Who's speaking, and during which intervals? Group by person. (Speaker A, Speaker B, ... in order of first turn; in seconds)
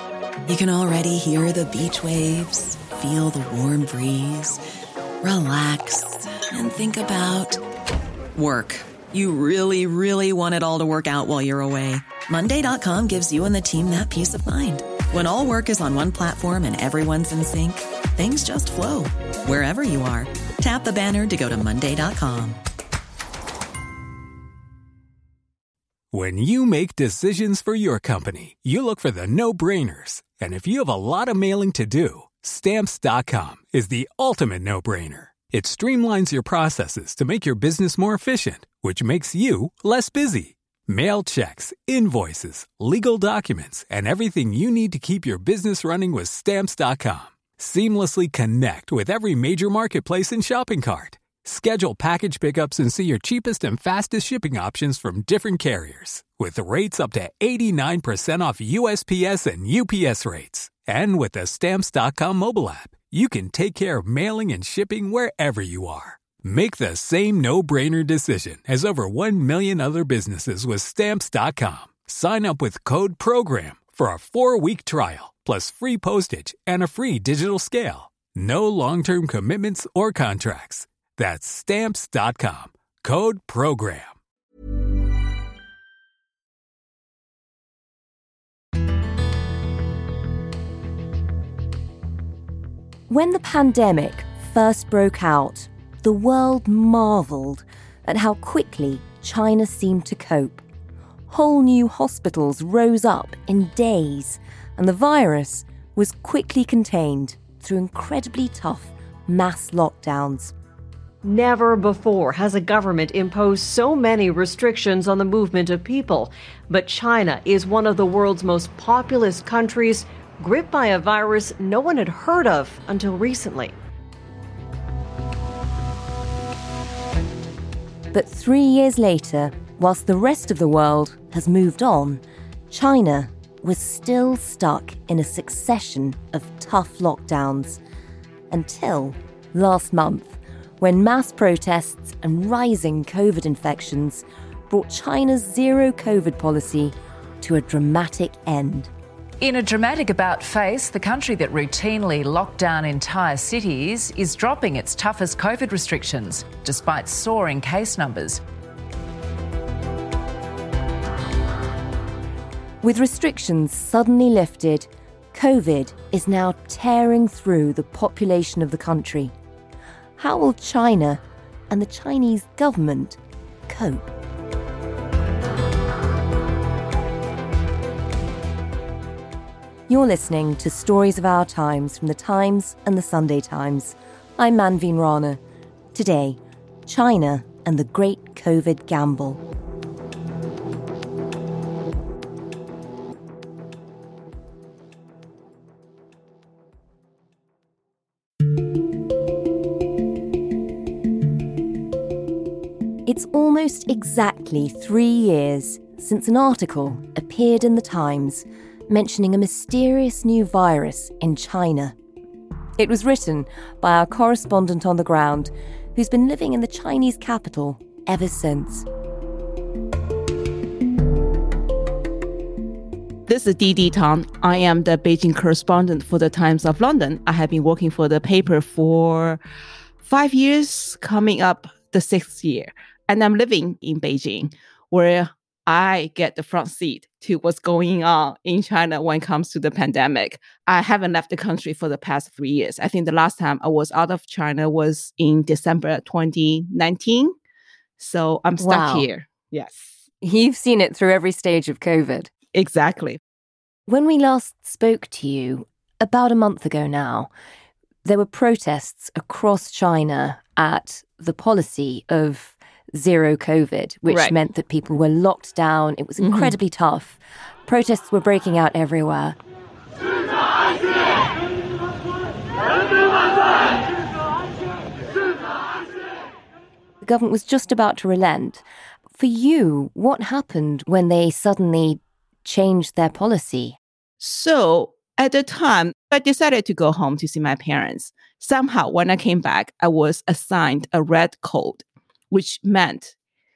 Speaker A: 0.5-4.6, 5.2-7.6, 8.3-22.6
Speaker B: 26.1-84.2
Speaker C: 93.1-100.6, 101.3-110.5, 128.1-137.8, 138.5-148.9, 162.8-169.3, 170.2-173.2, 173.7-174.1, 179.9-185.4, 185.9-189.4, 203.1-211.9, 212.8-218.8, 248.6-249.1, 250.2-252.3, 253.9-257.3, 258.1-269.4, 277.0-283.8
Speaker D: 111.2-123.8
Speaker E: 149.4-158.4
Speaker F: 223.3-229.4, 230.0-247.3, 248.0-249.9, 252.5-253.2, 264.1-264.4, 266.2-266.6, 284.2-293.1